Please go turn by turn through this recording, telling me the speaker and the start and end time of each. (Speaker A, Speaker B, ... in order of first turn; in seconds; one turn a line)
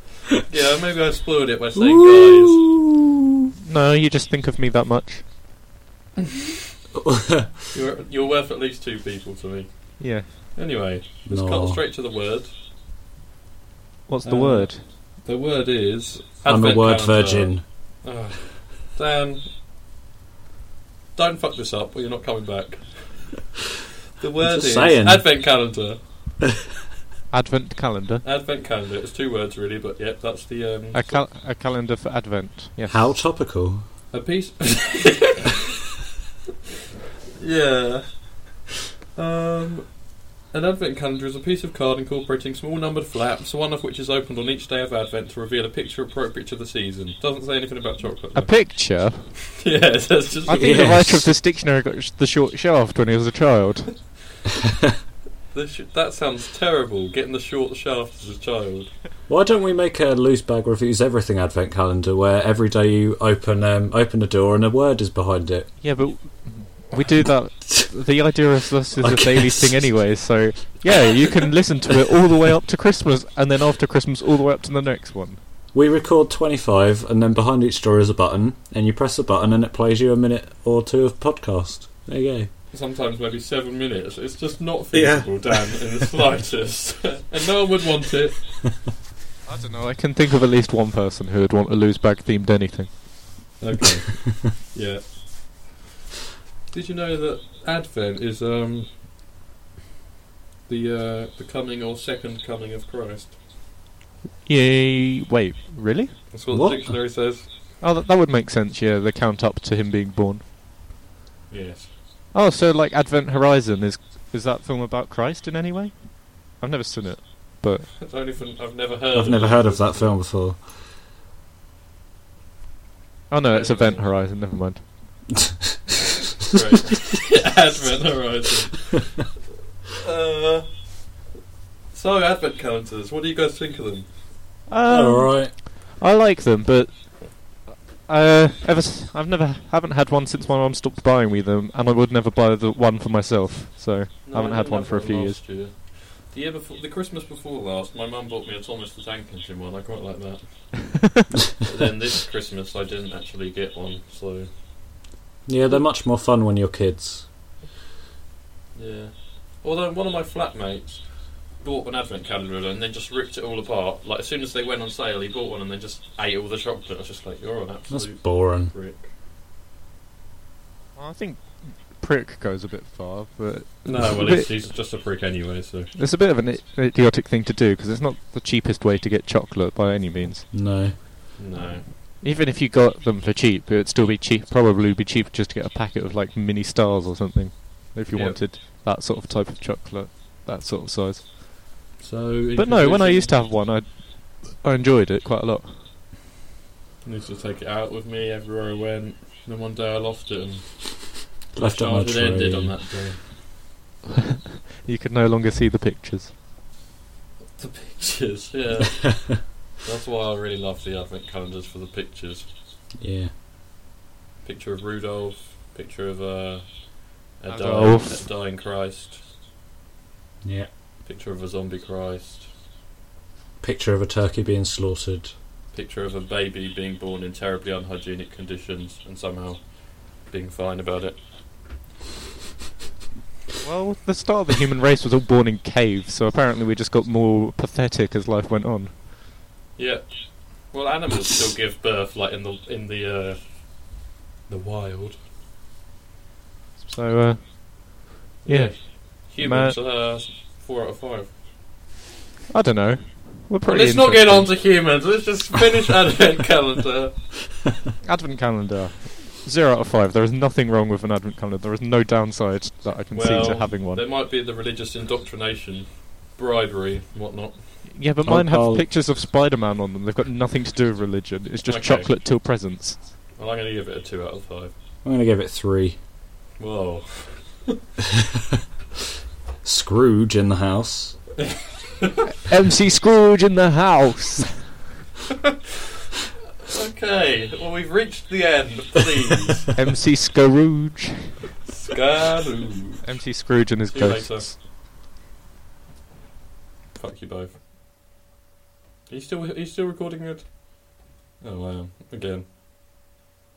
Speaker A: 0.5-2.6
Speaker B: 1.8-2.9
Speaker C: 3.7-5.2
Speaker B: 7.0-7.6
Speaker A: 7.7-12.5
Speaker C: 10.0-10.3
Speaker B: 11.3-11.8
Speaker C: 14.1-14.8
Speaker A: 14.2-19.5
Speaker B: 16.5-17.6
Speaker A: 21.1-23.6
Speaker A: 24.2-26.0
Speaker B: 24.4-25.3
Speaker C: 27.3-28.2
Speaker A: 28.2-31.3
Speaker C: 30.9-33.1
Speaker B: 32.9-33.9
Speaker A: 34.1-35.6
Speaker A: 37.4-51.0
Speaker C: 48.3-49.5
Speaker C: 50.5-54.2
Speaker B: 50.5-51.3
Speaker A: 55.5-58.9
Speaker B: 59.3-66.0
Speaker C: 65.8-75.4
Speaker B: 69.0-70.1
Speaker B: 75.7-82.5
Speaker A: 82.7-88.8
Speaker B: 84.9-85.9
Speaker C: 89.5-93.3
Speaker A: 93.6-95.8
Speaker A: 96.7-99.0
Speaker A: 100.7-103.4
Speaker C: 104.5-106.2
Speaker A: 106.3-107.5
Speaker B: 106.5-107.0
Speaker C: 107.8-110.4
Speaker A: 111.5-111.9
Speaker C: 112.3-117.9
Speaker A: 118.0-120.2
Speaker B: 119.1-120.7
Speaker C: 123.3-125.4
Speaker A: 123.4-124.2
Speaker B: 125.4-125.7
Speaker A: 125.9-129.3
Speaker A: 129.9-131.1
Speaker A: 131.9-134.1
Speaker C: 134.7-145.5
Speaker B: 134.9-135.5
Speaker A: 144.3-151.0
Speaker A: 151.6-154.5
Speaker B: 155.5-157.3
Speaker A: 158.8-169.1
Speaker B: 167.9-168.7
Speaker C: 171.0-174.5
Speaker A: 173.8-175.9
Speaker C: 175.9-180.6
Speaker B: 180.5-181.0
Speaker A: 181.4-181.9
Speaker C: 182.2-191.2
Speaker A: 188.1-188.4
Speaker A: 192.0-193.3
Speaker C: 192.6-195.7
Speaker A: 197.0-203.2
Speaker B: 201.6-202.8
Speaker C: 204.8-206.3
Speaker A: 207.6-212.5
Speaker B: 213.0-213.3
Speaker A: 214.4-219.2
Speaker C: 217.5-218.2
Speaker B: 220.4-220.7
Speaker A: 221.0-222.5
Speaker B: 223.6-225.3
Speaker A: 225.7-231.2
Speaker C: 233.6-238.9
Speaker A: 239.8-245.2
Speaker C: 246.8-249.8
Speaker A: 248.4-251.3
Speaker C: 252.5-254.7
Speaker A: 253.6-257.3
Speaker C: 258.0-264.1
Speaker A: 263.1-267.9
Speaker C: 267.9-273.0
Speaker B: 268.2-268.9
Speaker A: 271.6-272.2
Speaker A: 273.4-274.7
Speaker B: 275.0-276.0
Speaker A: 276.6-277.8
Speaker B: 279.6-281.2
Speaker C: 282.4-284.8
Speaker A: 286.6-289.7
Speaker C: 289.8-291.4
Speaker A: 291.6-293.4
Speaker C: 293.0-294.6
Speaker A: 293.9-294.6
Speaker A: 296.9-297.6
Speaker A: 299.1-302.5